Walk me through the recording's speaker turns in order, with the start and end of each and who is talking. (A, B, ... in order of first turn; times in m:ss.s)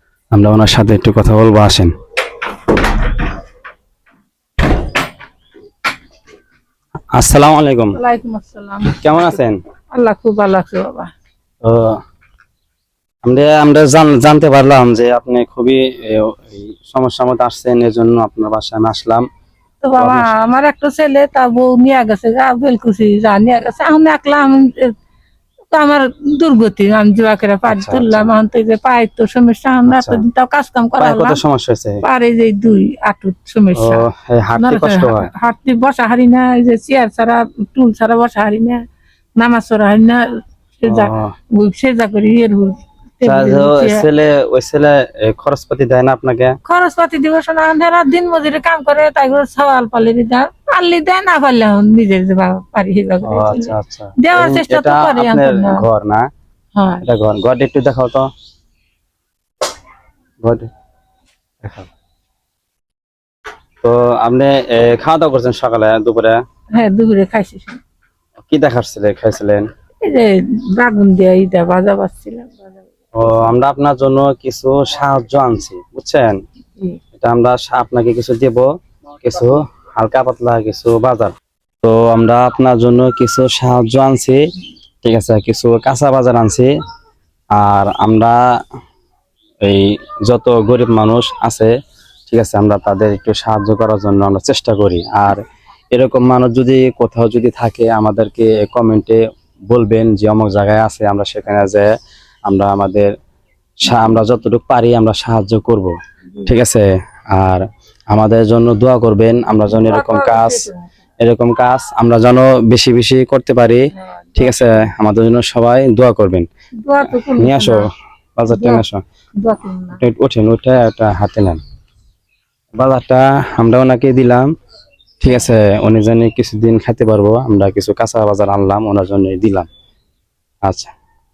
0:00.3-0:01.9 A
0:07.1-0:08.0 A
0:07.9-0:09.1 B
0:08.9-0:09.6 A
0:09.9-0:11.1 B
0:11.6-0:12.0 A
0:13.2-0:19.2 A
0:19.8-0:24.9 B
0:20.0-0:20.2 A
0:25.7-0:31.4 B
0:27.7-0:28.3 A
0:29.9-0:30.2 A
0:31.0-0:32.0 A
0:32.0-0:34.0 B
0:33.8-0:35.3 A
0:34.6-0:38.8 B
0:39.4-0:40.2 B
0:40.8-0:44.0 B
0:40.9-0:41.3 A
0:43.2-0:46.6 A
0:46.6-0:55.8 B
0:53.2-0:56.3 A
0:56.8-0:57.0 B
0:57.0-0:58.3 A
1:00.4-1:00.7 A
1:01.6-1:01.9 A
1:03.8-1:06.4 A
1:06.8-1:07.8 B
1:08.5-1:09.6 A
1:10.0-1:12.8 B
1:13.1-1:16.4 A
1:17.1-1:18.7 A
1:19.2-1:24.4 A
1:25.0-1:26.7 A
1:27.5-1:28.4 A
1:29.6-1:31.7 A
1:32.3-1:35.4 A
1:35.9-1:41.9 A
1:42.5-1:43.1 A
1:43.8-1:45.9 A
1:46.4-1:50.7 A
1:49.7-1:50.8 B
1:51.2-1:53.8 A
1:54.0-1:54.7 B
1:54.4-1:56.5 A
1:56.8-1:57.8 B
1:57.4-1:59.0 A
1:58.5-1:58.8 B
1:59.4-2:00.0 B
2:00.0-2:01.6 A
2:02.8-2:04.5 A
2:05.2-2:09.7 A
2:10.6-2:10.9 A